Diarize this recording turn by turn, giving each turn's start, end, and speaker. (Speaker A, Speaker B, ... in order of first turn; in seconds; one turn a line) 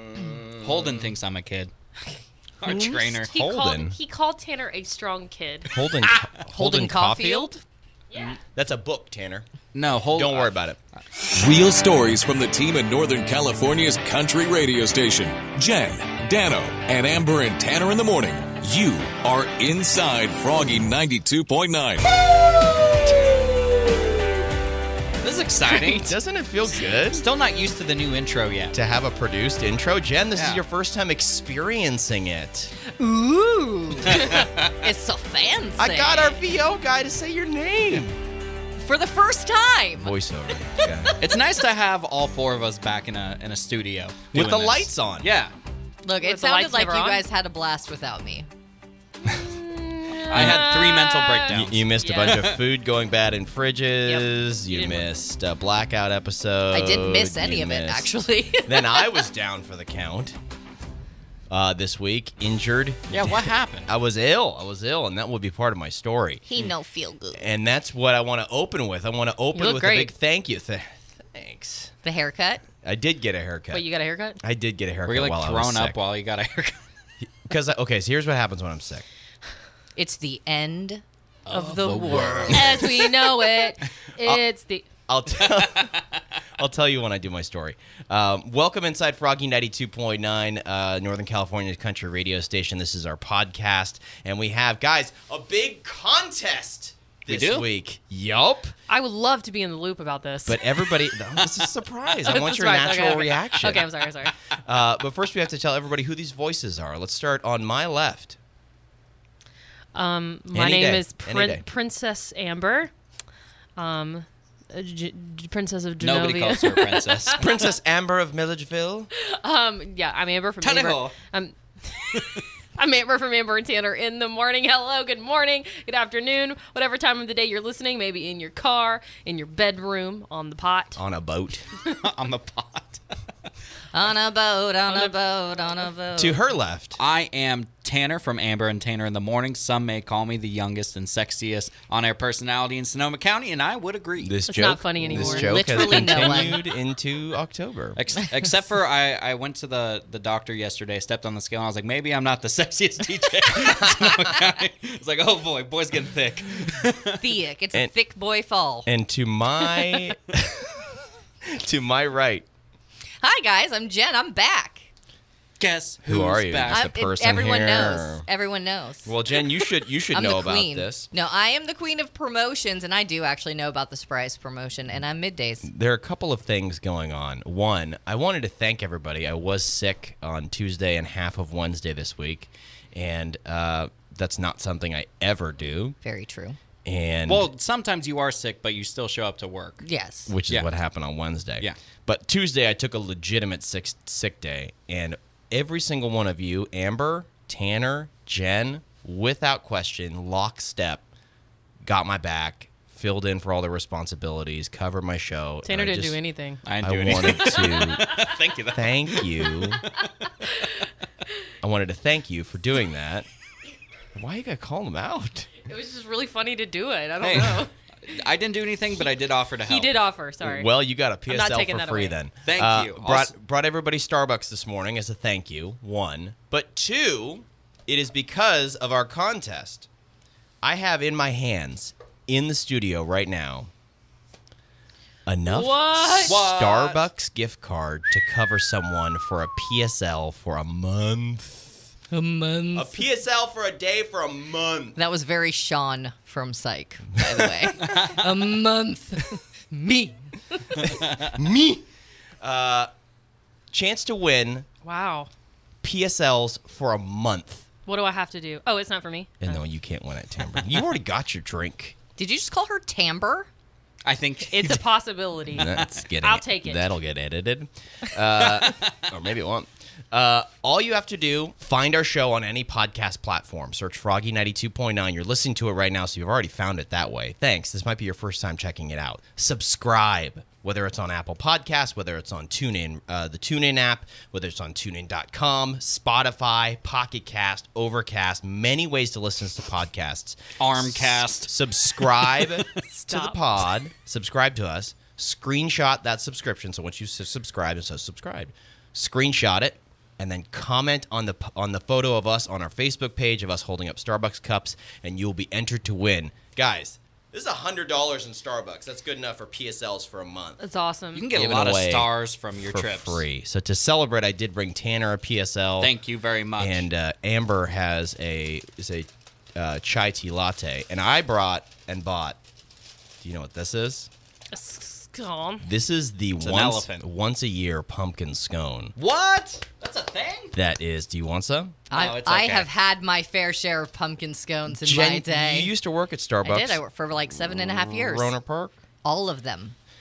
Speaker A: 0.6-1.7
Speaker A: 2.6-3.3
Speaker B: 2.7-2.9
Speaker C: 3.2-5.8
Speaker D: 3.3-4.0
Speaker D: 5.7-7.6
Speaker B: 6.5-7.5
Speaker C: 8.1-8.4
Speaker D: 8.5-9.5
Speaker A: 9.7-10.5
Speaker D: 10.1-10.8
Speaker E: 11.3-22.2
Speaker A: 25.2-26.1
Speaker D: 25.6-27.2
Speaker A: 27.1-28.8
Speaker D: 28.7-32.7
Speaker A: 30.3-30.6
Speaker B: 32.8-36.4
Speaker A: 34.1-34.7
Speaker D: 35.8-38.1
Speaker B: 38.8-40.2
Speaker D: 40.0-41.1
Speaker B: 40.8-41.3
Speaker A: 41.2-45.5
Speaker D: 44.3-45.3
Speaker B: 46.0-48.5
Speaker C: 46.2-47.2
Speaker C: 49.4-52.5
Speaker A: 50.3-52.6
Speaker D: 50.3-50.6
Speaker D: 51.5-60.4
Speaker C: 54.0-55.1
Speaker B: 56.7-59.2
Speaker D: 61.5-66.4
Speaker A: 63.1-63.9
Speaker B: 66.5-67.4
Speaker D: 67.3-71.9
Speaker C: 69.5-70.1
Speaker B: 72.0-72.6
Speaker D: 72.8-73.8
Speaker C: 73.7-74.4
Speaker D: 74.4-76.0
Speaker A: 75.0-76.8
Speaker D: 77.4-79.0
Speaker B: 80.0-82.9
Speaker A: 81.5-83.1
Speaker D: 82.5-82.8
Speaker C: 82.5-84.9
Speaker D: 85.1-86.0
Speaker A: 85.4-86.0
Speaker D: 86.5-98.7
Speaker A: 97.3-97.6
Speaker C: 98.9-100.9
Speaker D: 100.5-103.9
Speaker C: 102.2-104.3
Speaker D: 104.5-108.4
Speaker C: 109.9-112.9
Speaker D: 110.5-111.6
Speaker C: 113.8-117.5
Speaker A: 116.0-117.4
Speaker D: 117.3-119.1
Speaker C: 119.2-131.0
Speaker A: 120.6-121.1
Speaker D: 130.9-131.7
Speaker A: 131.9-133.0
Speaker B: 133.9-136.4
Speaker C: 134.9-135.1
Speaker D: 136.2-137.0
Speaker A: 137.0-144.3
Speaker D: 144.2-148.0
Speaker C: 144.5-146.5
Speaker B: 145.1-146.6
Speaker A: 147.9-157.2
Speaker D: 153.6-154.4
Speaker B: 157.2-158.9
Speaker D: 158.8-162.4
Speaker B: 163.2-164.9
Speaker A: 165.6-166.8
Speaker D: 166.0-168.2
Speaker B: 166.7-175.7
Speaker D: 169.0-171.1
Speaker D: 175.6-186.0
Speaker B: 186.0-186.6
Speaker D: 186.8-187.5
Speaker A: 187.3-189.8
Speaker B: 189.8-190.3
Speaker D: 190.3-201.0
Speaker D: 201.8-206.2
Speaker C: 205.6-206.6
Speaker A: 206.6-210.1
Speaker D: 206.8-209.8
Speaker D: 211.6-213.3
Speaker D: 214.1-215.6
Speaker C: 215.7-217.7
Speaker A: 217.2-219.9
Speaker C: 219.7-220.7
Speaker D: 220.4-229.9
Speaker C: 221.3-222.1
Speaker A: 222.4-223.3
Speaker D: 230.6-233.7
Speaker D: 235.2-241.8
Speaker C: 235.4-236.4
Speaker A: 236.2-237.1
Speaker B: 242.1-243.0
Speaker D: 242.7-245.0
Speaker B: 244.9-250.3
Speaker D: 247.3-247.7
Speaker A: 247.8-248.2
Speaker A: 250.8-251.3
Speaker D: 250.8-251.8
Speaker D: 252.4-252.9
Speaker D: 253.7-254.7
Speaker C: 254.8-255.3
Speaker D: 255.8-257.6
Speaker C: 257.9-259.6
Speaker D: 259.4-261.9
Speaker B: 262.2-263.5
Speaker A: 264.0-264.9
Speaker C: 264.5-266.8
Speaker A: 265.5-266.0
Speaker D: 265.5-310.6
Speaker A: 268.4-269.1
Speaker A: 290.6-292.7
Speaker C: 292.8-293.4
Speaker C: 310.6-311.2
Speaker A: 311.1-313.2
Speaker D: 311.3-312.1
Speaker D: 312.7-315.9
Speaker A: 315.8-316.9
Speaker D: 316.6-322.4
Speaker D: 323.2-324.1
Speaker C: 324.5-325.6
Speaker D: 325.6-328.9
Speaker A: 326.4-327.1
Speaker A: 328.9-330.5
Speaker D: 330.5-331.8
Speaker B: 331.9-335.7
Speaker A: 331.9-332.7
Speaker D: 334.8-336.8
Speaker B: 336.4-338.4
Speaker D: 337.4-338.8
Speaker B: 339.0-339.8